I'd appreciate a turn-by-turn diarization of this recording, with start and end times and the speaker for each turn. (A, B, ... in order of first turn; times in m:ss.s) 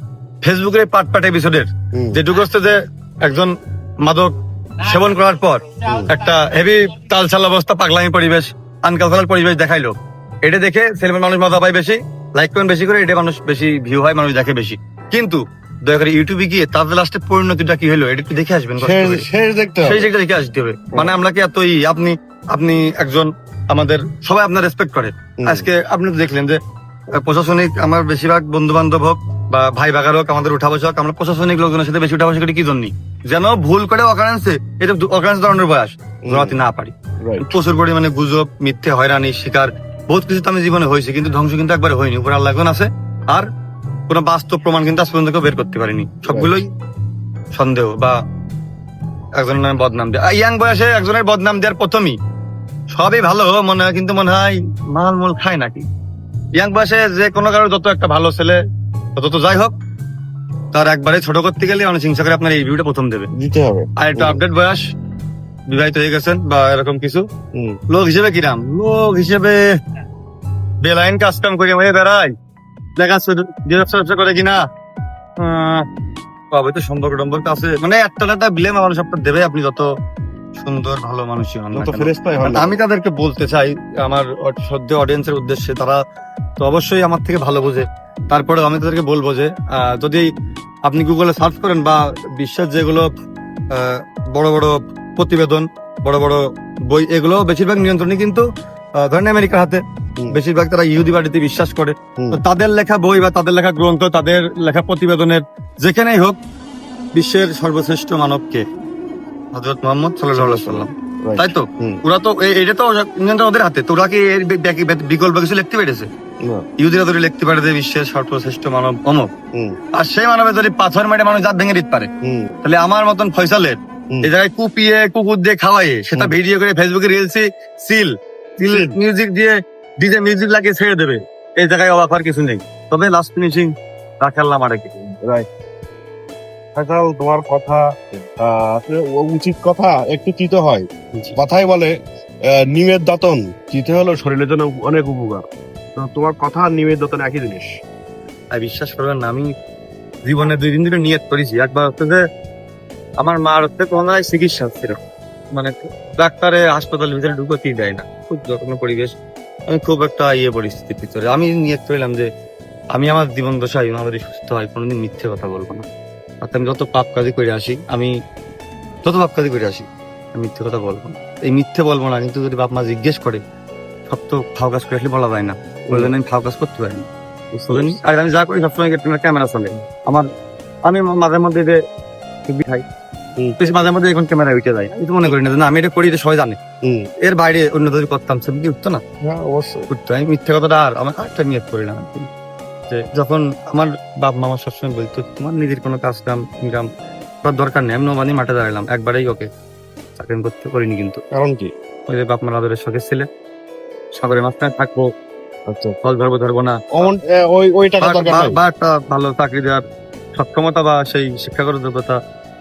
0:00.4-0:19.3 A
0:01.9-0:02.2 B
0:05.8-0:06.1 B
0:18.8-0:20.1 B
0:19.8-0:26.6 A
0:25.4-0:25.7 B
0:27.1-0:43.5 A
0:36.2-0:36.6 B
0:37.2-0:37.6 B
0:44.1-0:46.7 A
0:46.3-0:46.6 B
0:47.5-0:48.2 A
0:49.4-0:52.2 A
0:52.9-0:55.9 A
0:56.6-0:58.6 A
0:59.2-0:59.7 A
1:00.7-1:03.3 A
1:03.3-1:04.4 B
1:04.0-1:04.9 A
1:05.7-1:07.3 A
1:07.5-1:07.8 B
1:07.9-1:09.8 A
1:10.8-1:12.3 A
1:13.0-1:14.6 A
1:15.4-1:15.9 A
1:16.5-1:19.9 A
1:20.6-1:26.0 A
1:21.7-1:22.8 B
1:26.6-1:30.3 A
1:30.8-1:33.1 A
1:33.7-1:38.4 A
1:39.0-1:46.4 A
1:47.1-1:48.6 A
1:49.5-1:56.1 A
1:50.3-1:52.0 B
1:56.4-1:56.7 B
1:56.8-1:59.3 A
1:59.5-1:59.8 B
1:59.9-2:02.1 A
2:02.2-2:02.6 B
2:02.6-2:15.0 A
2:08.7-2:09.0 B
2:15.2-2:15.5 B
2:16.7-2:27.8 B
2:28.5-2:29.5 A
2:30.2-2:32.2 A
2:33.2-2:35.0 A
2:35.5-2:39.1 A
2:39.7-2:42.3 A
2:42.9-2:45.9 A
2:46.4-2:48.2 A
2:49.0-2:53.4 A
2:54.1-3:00.3 A
2:55.9-2:56.1 B
2:57.7-2:58.0 B
3:00.8-3:01.8 A
3:02.5-3:02.8 A
3:03.6-3:06.6 A
3:06.8-3:07.1 B
3:07.2-3:09.0 A
3:09.2-3:09.9 B
3:09.9-3:12.3 A
3:12.9-3:16.9 A
3:17.4-3:19.5 A
3:20.2-3:21.2 A
3:21.3-3:21.7 B
3:22.1-3:23.3 A
3:24.1-3:25.1 A
3:25.7-3:26.0 B
3:26.0-3:27.0 A
3:26.9-3:28.6 B
3:28.0-3:29.8 A
3:30.4-3:32.2 A